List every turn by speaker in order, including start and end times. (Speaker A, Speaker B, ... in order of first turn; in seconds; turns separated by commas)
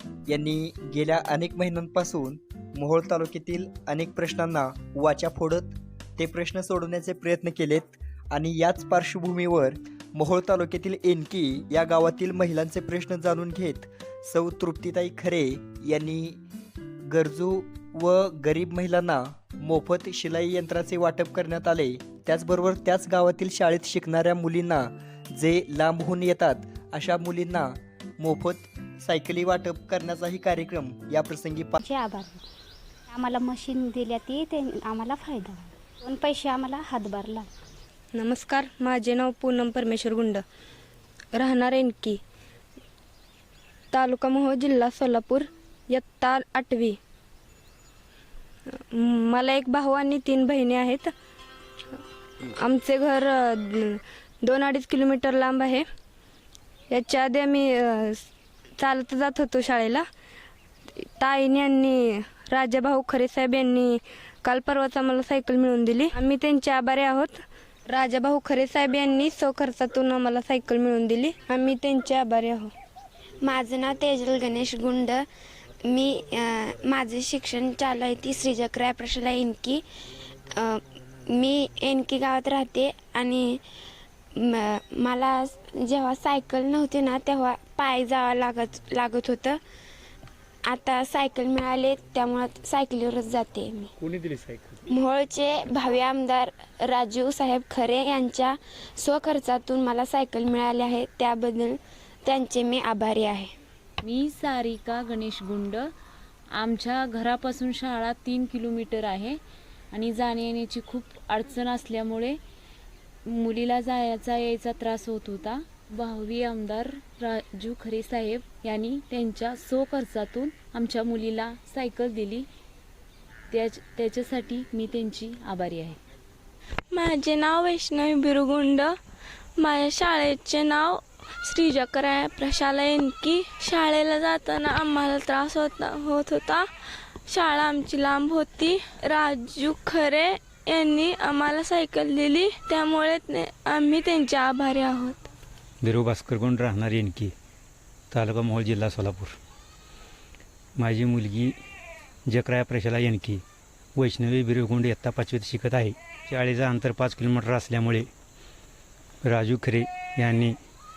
Speaker A: 0.3-16.4, Speaker A: 17.1-31.8, Speaker B: 31.8-32.4, Speaker B: 33.1-37.5, Speaker C: 38.1-40.4, Speaker C: 41.3-42.2, Speaker C: 43.9-47.0, Speaker C: 48.8-51.1, Speaker C: 52.6-55.8, Speaker C: 56.9-58.3, Speaker C: 58.8-60.1, Speaker C: 61.0-72.7, Speaker D: 73.4-75.2, Speaker D: 75.9-79.8, Speaker D: 80.5-83.6, Speaker D: 84.4-89.6, Speaker D: 90.7-93.9, Speaker E: 94.0-94.8, Speaker D: 94.9-103.5, Speaker F: 104.0-105.9, Speaker F: 106.5-109.4, Speaker F: 109.9-112.4, Speaker F: 113.3-122.5, Speaker F: 123.5-126.0, Speaker G: 126.9-128.9, Speaker G: 129.6-136.6, Speaker G: 137.3-145.3, Speaker E: 145.8-147.3, Speaker E: 148.1-149.3, Speaker E: 150.8-151.5, Speaker E: 152.3-153.4, Speaker E: 153.9-158.1, Speaker E: 159.2-160.6